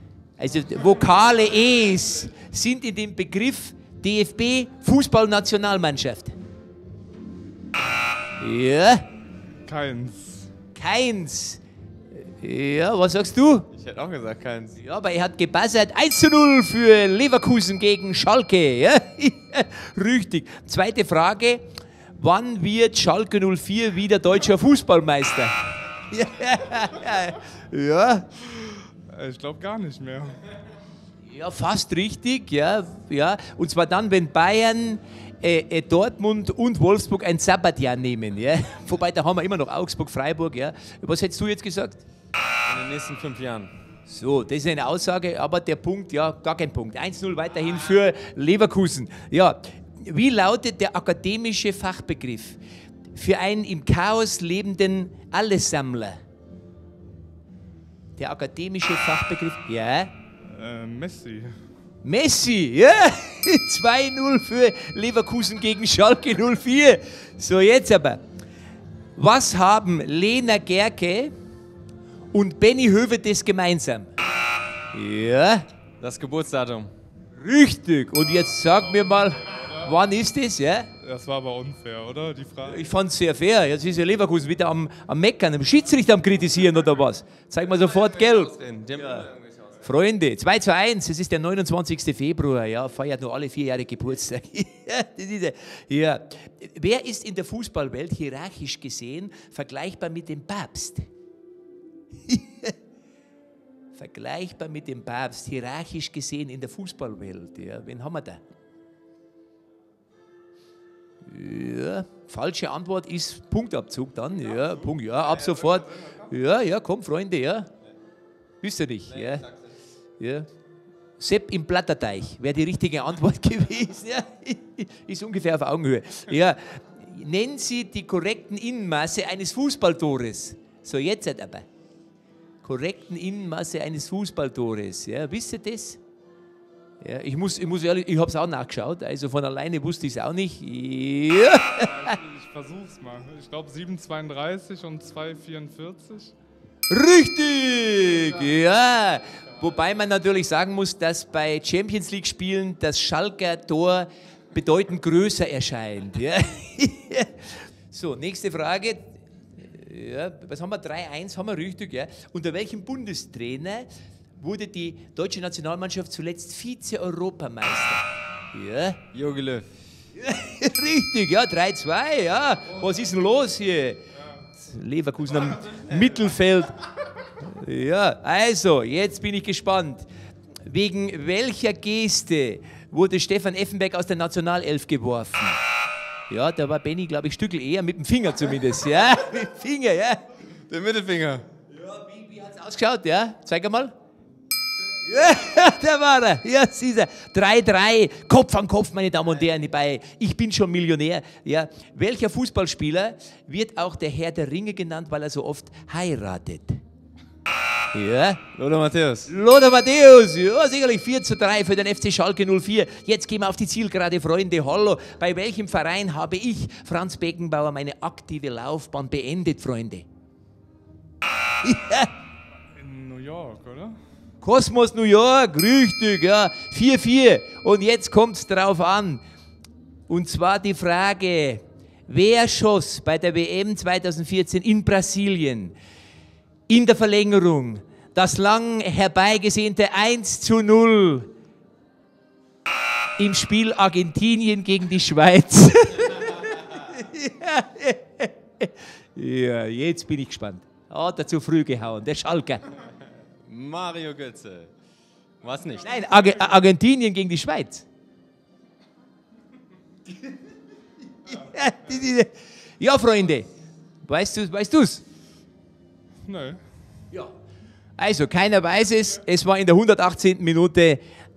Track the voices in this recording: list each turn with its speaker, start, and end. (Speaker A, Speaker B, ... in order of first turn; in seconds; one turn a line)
Speaker A: 0.4-6.3
Speaker A: 8.4-9.0
Speaker B: 9.7-10.5
Speaker A: 10.7-11.6
Speaker A: 12.2-13.7
Speaker C: 13.7-14.8
Speaker A: 14.8-21.6
Speaker A: 22.2-25.6
Speaker A: 26.1-28.3
Speaker B: 28.4-30.4
Speaker A: 31.2-42.0
Speaker C: 42.6-43.7
Speaker A: 44.0-52.6
Speaker A: 53.1-56.2
Speaker A: 58.2-60.1
Speaker B: 60.5-61.6
Speaker A: 62.0-68.2
Speaker A: 69.2-71.3
Speaker A: 72.3-74.1
Speaker A: 74.9-75.7
Speaker C: 76.0-76.9
Speaker A: 77.3-80.9
Speaker B: 81.0-82.8
Speaker A: 82.7-89.3
Speaker C: 87.6-89.8
Speaker A: 89.8-101.1
Speaker A: 102.2-102.7
Speaker A: 103.9-108.4
Speaker A: 111.2-117.7
Speaker C: 114.9-116.1
Speaker A: 118.6-119.5
Speaker C: 119.2-119.6
Speaker A: 120.2-120.5
Speaker A: 121.2-131.6
Speaker A: 132.6-136.0
Speaker A: 137.0-142.0
Speaker B: 141.8-146.3
Speaker A: 146.9-163.9
Speaker A: 164.4-169.0
Speaker C: 169.1-169.7
Speaker A: 170.2-176.8
Speaker A: 177.4-180.1
Speaker A: 180.7-185.6
Speaker A: 186.3-190.2
Speaker C: 190.7-191.4
Speaker A: 191.7-193.9
Speaker A: 195.0-206.8
Speaker A: 207.9-208.5
Speaker C: 208.5-209.3
Speaker A: 209.3-220.1
Speaker A: 221.6-222.1
Speaker B: 222.8-224.0
Speaker A: 224.4-229.2
Speaker A: 230.1-235.7
Speaker A: 236.7-241.3
Speaker A: 243.2-252.7
Speaker C: 253.5-254.7
Speaker C: 255.4-255.9
Speaker A: 255.8-257.9
Speaker A: 261.2-263.5
Speaker A: 264.0-265.0
Speaker B: 266.2-266.6
Speaker A: 268.0-271.0